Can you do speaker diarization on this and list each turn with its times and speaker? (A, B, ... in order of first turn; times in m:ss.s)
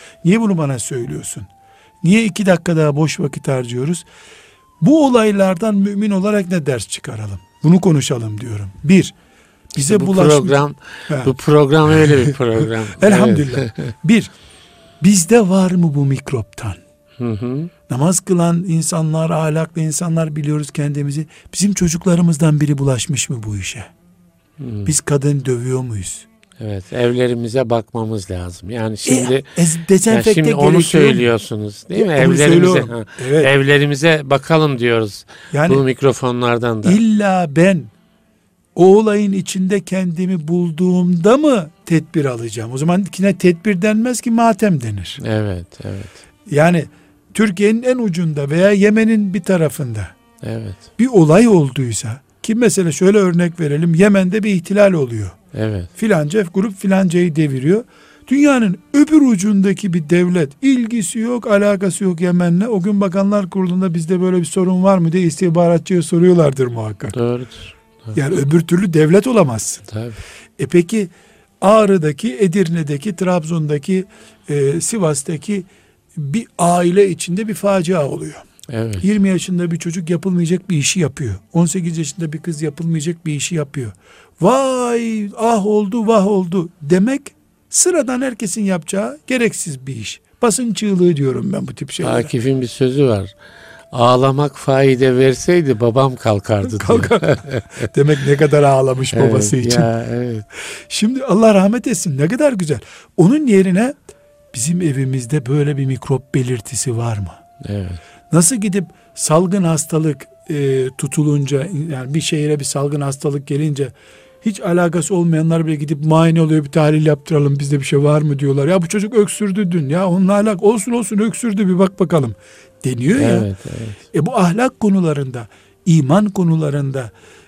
0:00.2-0:01.5 A
0:02.0-0:04.0 A
0:04.8-0:09.1 A
0:09.7-0:11.3 A
0:09.8-0:13.9 B
0:11.8-0:14.3 A
0:15.0-0:16.8 A
0:17.2-0:17.7 B
0:17.9-0:23.9 A
0:24.6-0:24.9 B
0:24.8-0:26.2 A
0:26.6-0:29.4 B
0:29.0-0:31.3 A
0:30.1-0:37.0 B
0:31.9-0:33.5 A
0:35.5-0:35.8 A
0:36.8-0:37.9 A
0:38.7-0:45.2 A
0:45.2-0:46.2 B
0:46.5-0:50.1 A
0:50.4-0:50.8 B
0:51.0-0:55.4 A
0:55.5-0:55.9 B
0:56.0-1:07.2 A
1:07.1-1:08.2 B
1:08.1-1:09.8 A
1:09.9-1:10.2 B
1:10.6-1:18.4 A
1:18.7-1:19.0 B
1:19.0-1:32.3 A
1:32.0-1:33.3 B
1:33.9-1:37.9 B
1:36.7-1:39.9 A
1:39.1-1:40.4 B
1:40.7-1:44.0 A
1:44.5-1:47.4 A
1:47.6-1:48.0 B
1:48.3-2:03.5 A
2:03.1-2:04.0 B
2:04.1-2:07.1 A